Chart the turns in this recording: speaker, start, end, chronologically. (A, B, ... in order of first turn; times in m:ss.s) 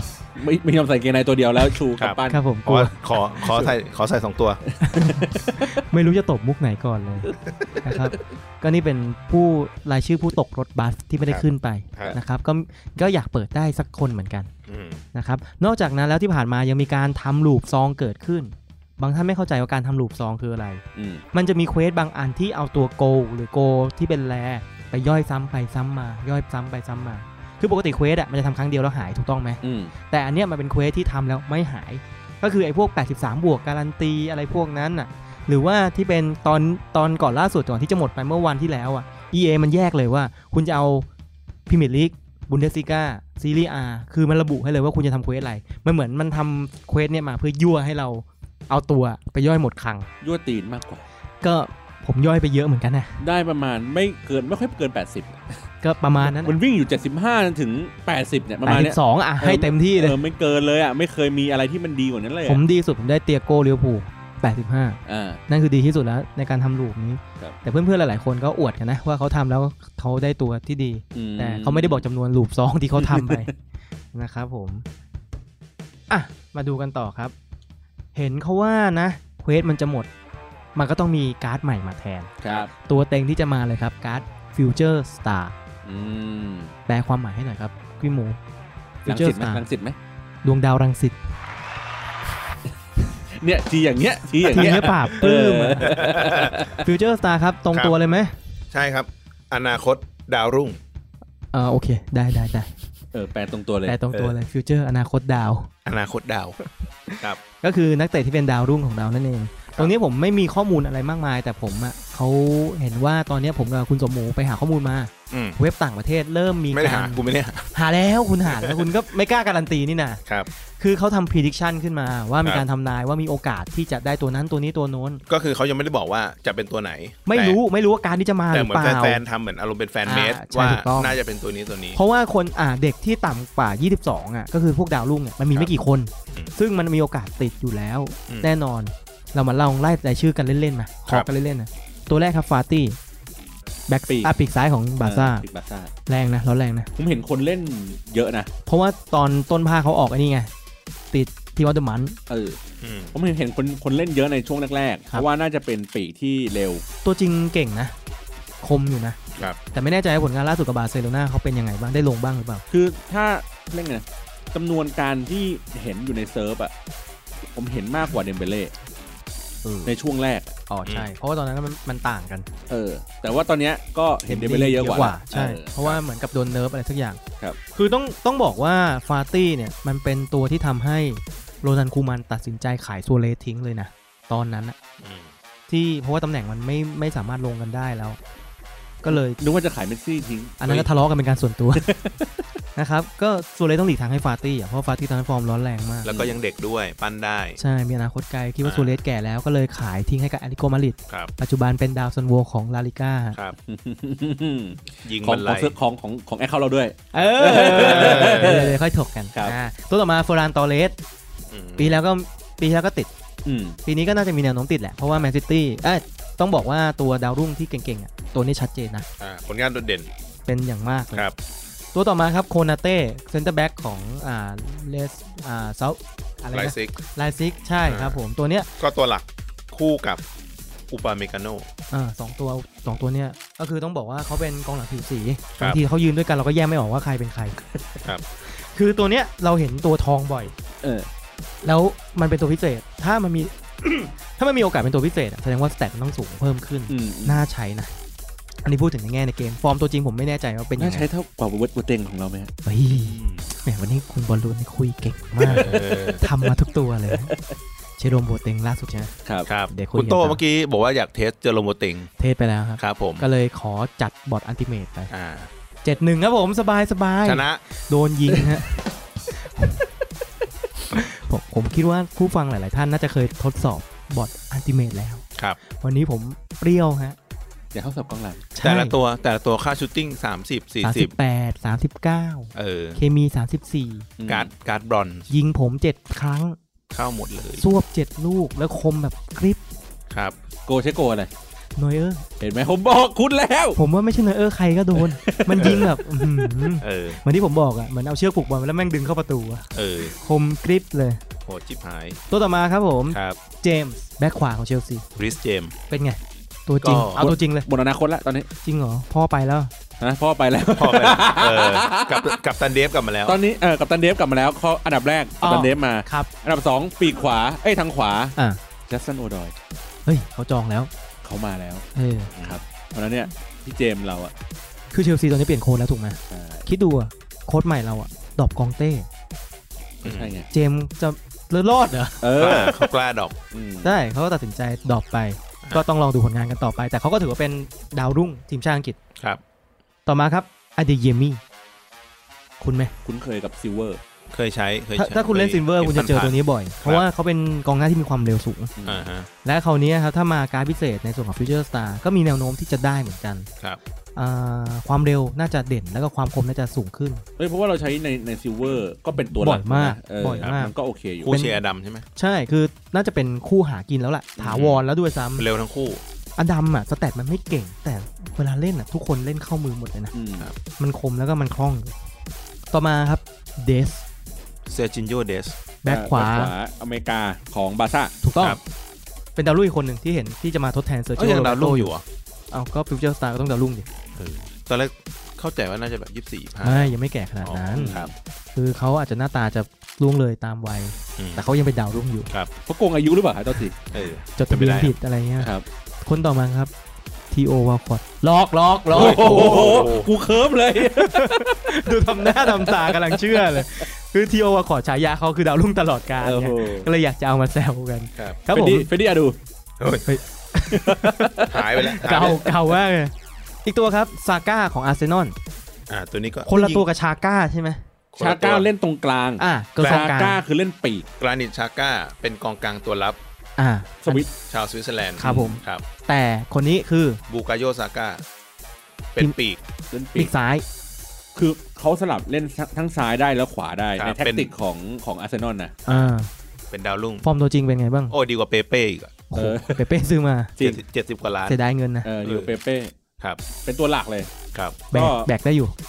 0:00.4-0:02.4 A
0:02.0-0:04.6 B
0:02.3-0:02.9 C
0:04.7-0:05.7 A
0:04.8-0:14.5 C
0:14.7-0:15.0 B
0:15.1-0:20.8 C
0:20.9-0:21.2 A
0:21.3-0:41.1 C
0:29.6-0:29.9 A
0:41.7-0:50.1 C
0:50.2-0:51.0 A
0:51.4-0:53.2 C
0:53.2-0:55.6 A
0:55.8-0:56.6 C
0:56.2-1:02.6 A
0:58.6-1:00.2 C
1:02.4-1:13.5 C
1:05.0-1:05.4 A
1:11.1-1:12.0 A
1:13.0-1:13.5 A
1:14.1-1:14.8 C
1:16.1-1:17.3 C
1:18.1-1:20.1 C
1:20.8-1:25.5 C
1:22.4-1:22.7 A
1:25.8-1:26.7 A
1:26.9-1:28.4 C
1:29.0-1:30.0 A
1:29.0-1:29.6 C
1:30.4-1:31.2 C
1:33.3-1:36.8 A
1:34.5-1:38.4 C
1:34.5-1:34.9 B
1:36.0-1:36.5 B
1:38.7-1:40.8 B
1:41.5-1:42.7 C
1:43.1-1:44.0 A
1:43.8-1:45.7 C
1:45.8-1:46.6 B
1:47.1-2:00.2 C
1:55.3-1:55.6 B
1:56.7-1:57.7 B
1:58.4-1:58.9 B
2:00.8-2:05.2 C
2:05.2-2:07.6 B
2:07.2-2:09.2 C
2:08.5-2:12.0 B
2:10.0-2:11.2 C
2:11.9-2:23.0 C
2:23.9-2:25.4 C
2:25.0-2:25.9 A
2:26.1-2:26.9 C
2:27.0-2:28.5 A
2:28.6-2:30.5 C
2:31.1-2:32.2 C
2:32.3-2:32.6 A
2:32.8-2:33.1 B
2:33.1-2:36.8 A
2:37.0-2:37.9 C
2:38.6-2:39.2 C
2:39.7-2:42.6 C
2:42.7-2:46.7 A
2:47.5-2:48.7 A
2:49.6-2:49.9 C
2:49.8-2:50.5 A
2:50.7-2:52.5 C
2:50.8-2:51.1 B
2:52.7-2:55.7 A
2:54.3-2:57.2 C
2:57.7-3:04.8 C
3:05.0-3:05.3 B
3:05.7-3:08.2 C
3:09.0-3:09.4 C
3:09.0-3:10.9 A
3:10.6-3:11.9 C
3:11.7-3:12.5 A
3:12.8-3:16.1 C
3:16.0-3:17.6 B
3:16.1-3:16.3 A
3:17.6-3:23.4 C
3:18.6-3:19.0 B
3:23.7-3:28.8 A
3:25.0-3:25.7 B
3:27.1-3:31.0 C
3:27.5-3:28.6 B
3:31.5-3:32.0 B
3:31.8-3:33.1 C
3:33.4-3:33.8 A
3:33.8-3:39.1 C
3:39.2-3:40.1 B
3:40.5-3:41.2 C
3:41.9-3:48.7 C
3:46.5-3:47.0 B
3:47.8-3:48.2 B
3:48.8-3:50.2 B
3:50.9-3:51.7 B
3:51.9-3:57.6 C
3:58.5-4:00.5 C
4:00.8-4:01.1 A
4:01.6-4:07.9 C
4:06.9-4:07.4 A
4:08.6-4:11.1 C
4:10.8-4:12.5 A
4:12.6-4:17.3 C
4:12.9-4:13.4 B
4:15.4-4:16.2 B
4:17.1-4:17.4 A
4:18.0-4:19.1 C
4:19.4-4:22.1 B
4:19.7-4:20.4 C
4:22.2-4:25.1 C
4:22.8-4:23.2 B
4:25.1-4:25.5 B
4:25.8-4:29.8 C
4:27.2-4:27.6 B
4:30.9-4:37.2 C
4:37.7-4:38.4 A
4:38.5-4:38.9 C
4:38.6-4:41.1 B
4:40.8-4:44.1 C
4:42.5-4:43.0 B
4:44.2-4:44.5 A
4:44.3-4:45.3 B
4:45.3-4:46.6 C
4:46.9-4:47.6 B
4:47.6-4:49.6 C
4:50.1-4:50.4 B
4:50.6-4:51.3 A
4:51.8-4:52.2 C
4:52.4-4:53.8 A
4:53.8-5:01.2 C
4:54.9-4:56.6 A
4:55.6-4:55.9 B
4:56.8-4:57.2 B
4:59.7-5:00.1 B
5:01.4-5:02.2 B
5:02.3-5:05.0 C
5:03.1-5:03.4 B
5:05.2-5:05.7 B
5:05.9-5:07.7 C
5:06.8-5:07.3 B
5:07.2-5:08.5 A
5:08.6-5:09.7 C
5:10.0-5:12.4 A
5:10.8-5:13.4 B
5:13.3-5:18.3 A
5:15.4-5:16.3 C
5:18.9-5:19.5 A
5:20.0-5:20.9 C
5:21.2-5:21.8 A
5:21.9-5:22.3 C
5:22.3-5:22.6 B
5:22.4-5:24.3 A
5:24.9-5:29.1 C
5:26.3-5:26.6 A
5:30.0-5:30.4 B
5:30.0-5:30.5 A
5:30.5-5:32.8 C
5:32.2-5:32.8 A
5:32.4-5:33.3 B
5:33.5-5:34.0 A
5:33.8-5:39.0 C
5:40.0-5:41.4 C
5:42.6-5:42.9 C
5:43.0-5:44.0 A
5:44.3-5:47.0 B
5:45.0-5:48.7 C
5:48.8-5:49.1 A
5:48.8-5:49.3 B
5:49.4-5:53.5 C
5:54.2-5:57.2 C
5:57.4-6:01.3 A
5:59.3-6:00.7 C
6:01.2-6:02.0 B
6:01.3-6:01.6 C
6:02.2-6:05.5 C
6:04.4-6:04.8 B
6:05.4-6:06.0 B
6:06.4-6:10.1 C
6:10.1-6:10.5 A
6:10.8-6:11.9 C
6:12.7-6:14.0 C
6:14.7-6:15.6 B
6:15.8-6:16.5 C
6:15.8-6:18.1 A
6:18.2-6:18.6 C
6:19.4-6:21.9 C
6:21.2-6:22.0 B
6:22.5-6:23.8 C
6:24.2-6:28.1 B
6:26.6-6:28.0 C
6:27.7-6:28.1 A
6:28.5-6:32.3 C
6:31.2-6:31.4 B
6:32.6-6:33.8 A
6:33.9-6:34.9 B
6:34.4-6:36.7 C
6:37.3-6:40.0 C
6:38.9-6:43.8 A
6:38.9-6:40.1 B
6:40.8-6:48.9 C
6:46.2-6:46.9 A
6:48.5-6:49.4 A
6:49.8-6:50.1 B
6:50.0-6:53.1 C
6:50.7-6:52.4 A
6:51.5-6:52.4 B
6:53.6-6:55.3 C
6:55.9-6:56.8 B
6:56.4-6:57.8 C
6:58.1-6:58.7 B
6:58.2-7:01.1 A
6:59.4-7:00.4 C
7:01.2-7:03.2 B
7:03.6-7:04.2 C
7:04.0-7:04.3 A
7:04.5-7:05.8 B
7:05.2-7:07.2 C
7:05.2-7:05.6 A
7:07.3-7:08.2 B
7:09.1-7:09.6 B
7:09.9-7:10.3 A
7:10.2-7:10.6 C
7:11.3-7:15.8 A
7:14.0-7:14.5 B
7:15.8-7:16.1 B
7:15.9-7:16.3 C
7:16.7-7:17.2 B
7:17.2-7:18.1 C
7:18.1-7:19.2 B
7:19.3-7:20.5 C
7:19.4-7:19.8 A
7:20.6-7:21.6 B
7:21.5-7:22.1 C
7:22.0-7:22.9 A
7:22.2-7:22.5 B
7:23.6-7:24.3 A
7:24.5-7:24.8 B
7:24.9-7:25.7 C
7:24.9-7:25.3 A